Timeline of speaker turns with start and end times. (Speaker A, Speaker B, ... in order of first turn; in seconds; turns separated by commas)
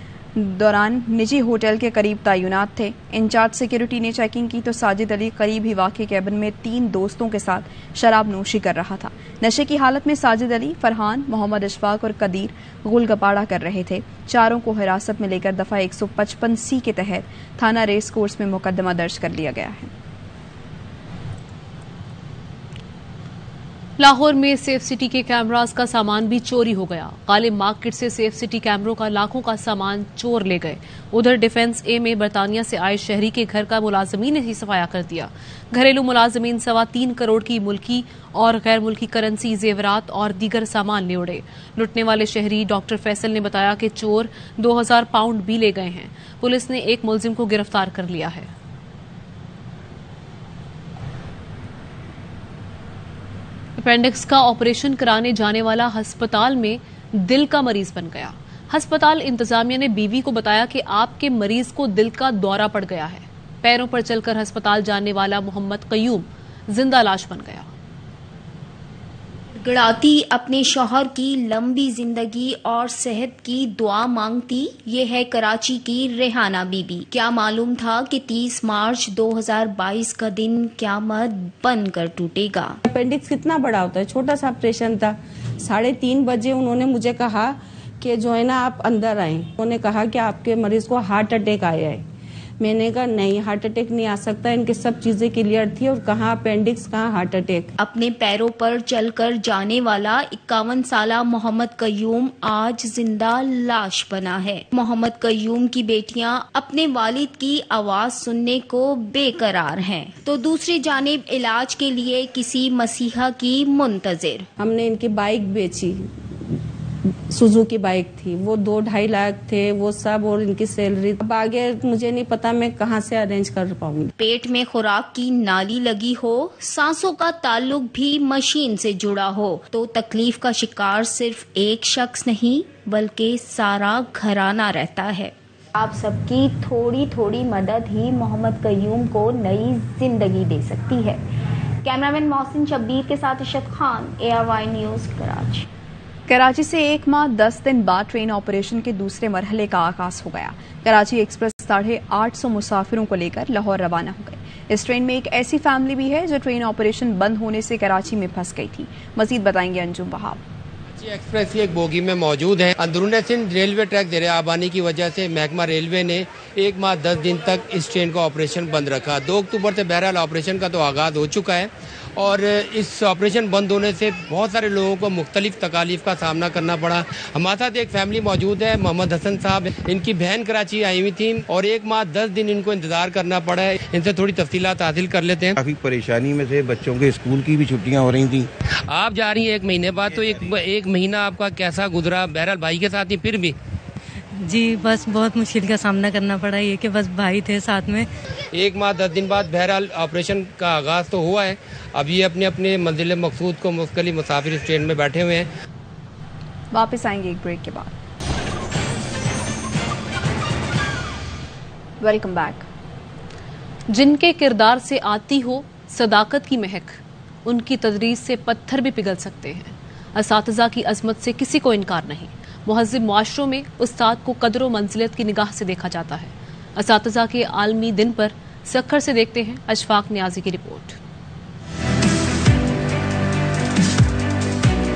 Speaker A: 0.4-19.9, Speaker B: 24.0-48.5, Speaker B: 53.8-67.7, Speaker C: 69.6-82.8, Speaker D: 82.9-92.0, Speaker D: 92.6-97.7, Speaker C: 97.8-114.5, Speaker D: 114.6-116.0, Speaker D: 117.3-124.1, Speaker C: 124.2-141.2, Speaker C: 141.8-145.7, Speaker A: 146.3-160.4, Speaker E: 161.0-185.6, Speaker F: 185.6-188.5, Speaker E: 188.9-193.6, Speaker G: 194.5-198.0, Speaker E: 198.5-205.5, Speaker A: 206.7-207.9, Speaker A: 212.0-212.7, Speaker B: 213.9-231.0